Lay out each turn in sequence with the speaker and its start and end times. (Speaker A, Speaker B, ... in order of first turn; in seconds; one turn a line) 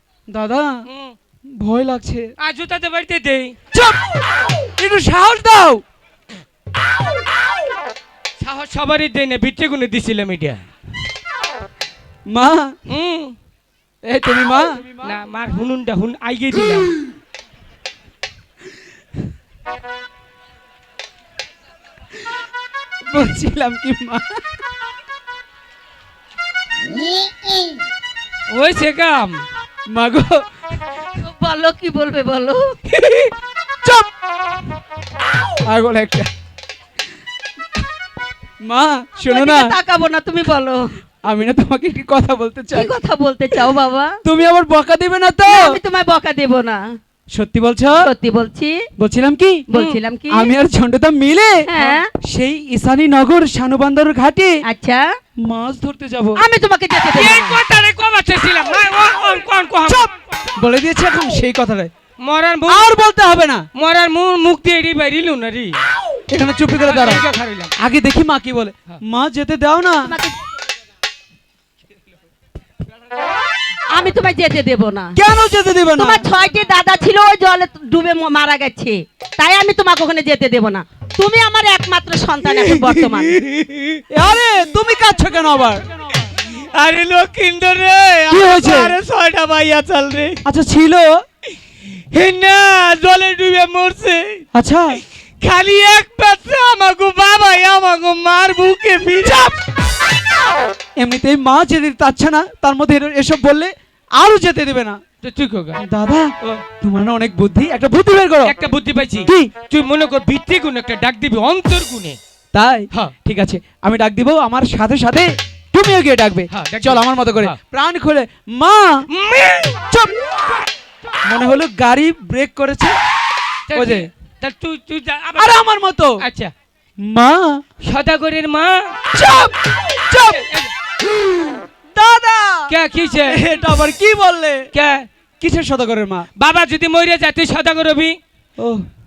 Speaker A: 0.3-0.8
Speaker B: 0.9-1.1
Speaker A: 1.6-2.3
Speaker B: 2.4-3.5
Speaker A: 3.7-4.0
Speaker A: 4.8-5.8
Speaker B: 8.4-10.6
Speaker A: 12.3-12.7
Speaker B: 12.9-13.3
Speaker A: 14.0-14.9
Speaker B: 15.0-16.9
Speaker A: 23.1-24.4
Speaker B: 28.5-29.4
Speaker A: 29.9-30.4
Speaker C: 31.2-32.8
Speaker B: 32.9-33.3
Speaker A: 33.8-34.1
Speaker A: 35.6-36.3
Speaker A: 38.6-39.7
Speaker C: 39.3-40.9
Speaker A: 41.2-42.9
Speaker C: 42.7-44.2
Speaker A: 44.2-45.8
Speaker C: 45.5-46.8
Speaker A: 47.3-48.1
Speaker C: 48.0-48.8
Speaker A: 49.0-49.6
Speaker C: 49.7-50.5
Speaker B: 49.7-50.0
Speaker A: 50.3-51.7
Speaker C: 51.6-52.1
Speaker A: 52.2-54.6
Speaker C: 54.6-55.0
Speaker A: 55.4-56.4
Speaker C: 56.4-57.6
Speaker B: 56.9-60.1
Speaker A: 60.5-61.9
Speaker B: 62.2-62.9
Speaker A: 62.7-63.6
Speaker B: 63.8-65.8
Speaker A: 66.3-67.2
Speaker B: 66.8-67.7
Speaker A: 67.8-70.1
Speaker C: 70.0-70.4
Speaker C: 73.9-75.2
Speaker A: 75.1-76.2
Speaker C: 76.0-83.4
Speaker B: 82.8-84.0
Speaker A: 84.1-85.8
Speaker B: 86.5-90.4
Speaker A: 88.3-89.0
Speaker A: 90.4-91.2
Speaker B: 92.1-94.4
Speaker A: 94.5-95.0
Speaker B: 95.4-99.5
Speaker A: 101.0-105.0
Speaker B: 105.2-105.8
Speaker A: 105.8-108.5
Speaker B: 108.4-112.2
Speaker A: 109.2-109.5
Speaker A: 112.5-119.0
Speaker B: 116.5-117.5
Speaker B: 119.1-119.8
Speaker A: 119.9-120.3
Speaker A: 121.2-123.0
Speaker B: 123.7-125.6
Speaker A: 123.7-124.1
Speaker A: 125.3-126.2
Speaker B: 126.2-126.5
Speaker A: 127.0-127.6
Speaker B: 127.8-128.9
Speaker A: 129.1-130.5
Speaker B: 130.3-130.7
Speaker A: 131.9-132.7
Speaker B: 132.7-133.4
Speaker A: 133.2-134.7
Speaker B: 134.7-135.1
Speaker A: 135.4-136.3
Speaker B: 136.4-138.2
Speaker A: 138.6-138.8